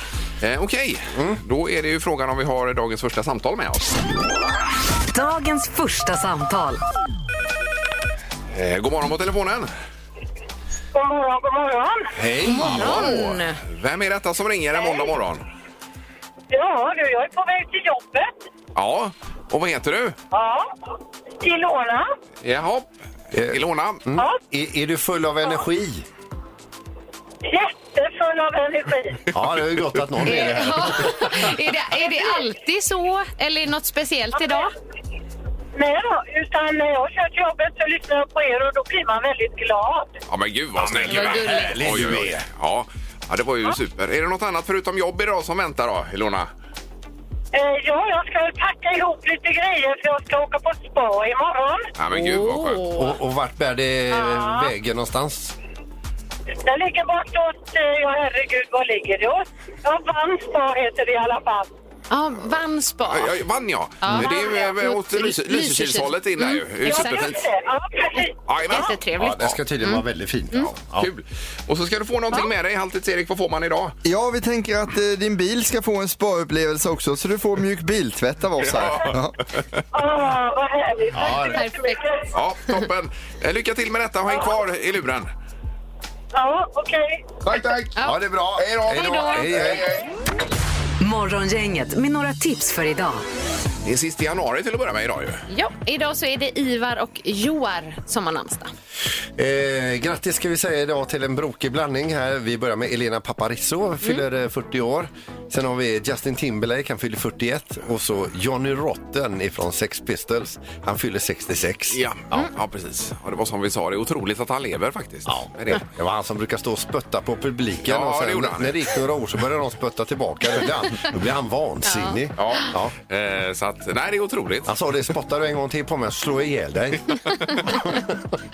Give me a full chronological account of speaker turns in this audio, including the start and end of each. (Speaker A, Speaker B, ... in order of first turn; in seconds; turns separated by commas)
Speaker A: 0.4-4.0, Speaker B: 1.1-1.4, Speaker C: 5.1-6.8, Speaker A: 8.5-9.7, Speaker D: 10.9-12.1, Speaker B: 12.2-13.1, Speaker E: 12.4-13.6, Speaker A: 12.6-15.4, Speaker D: 14.8-15.1, Speaker D: 16.5-18.3, Speaker A: 18.8-20.2, Speaker D: 20.3-20.7, Speaker D: 21.4-22.1, Speaker A: 22.4-22.9, Speaker B: 23.3-26.1, Speaker A: 23.4-24.0, Speaker D: 24.1-24.4, Speaker D: 27.5-29.2, Speaker B: 29.3-31.5, Speaker E: 30.3-34.7, Speaker D: 35.8-40.1, Speaker A: 40.3-46.5, Speaker B: 40.8-42.5, Speaker E: 41.1-41.8, Speaker D: 47.5-51.9, Speaker A: 52.0-52.9, Speaker E: 52.1-53.0, Speaker B: 53.0-55.5, Speaker D: 54.1-54.7, Speaker D: 56.6-61.7, Speaker E: 62.1-63.4, Speaker A: 63.1-67.4, Speaker E: 64.0-67.4, Speaker D: 64.2-64.7, Speaker D: 66.8-68.9, Speaker A: 68.5-69.6, Speaker E: 68.7-70.7, Speaker B: 69.2-71.1, Speaker A: 70.7-74.0, Speaker F: 74.0-79.4, Speaker A: 78.6-79.8, Speaker D: 79.9-82.3, Speaker B: 81.1-81.6, Speaker E: 81.5-82.1, Speaker A: 82.3-85.3, Speaker D: 86.3-87.4, Speaker A: 87.5-88.0, Speaker E: 88.0-88.2, Speaker B: 88.0-89.9, Speaker A: 88.5-90.0, Speaker E: 88.9-89.5, Speaker C: 91.0-93.2, Speaker A: 93.8-95.4, Speaker E: 95.5-98.7, Speaker B: 99.4-112.5, Speaker A: 111.9-115.8, Speaker B: 115.3-122.9, Speaker A: 117.8-118.9, Speaker E: 121.9-122.2, Speaker A: 122.4-124.7, Speaker B: 124.7-128.2, Speaker A: 127.4-127.6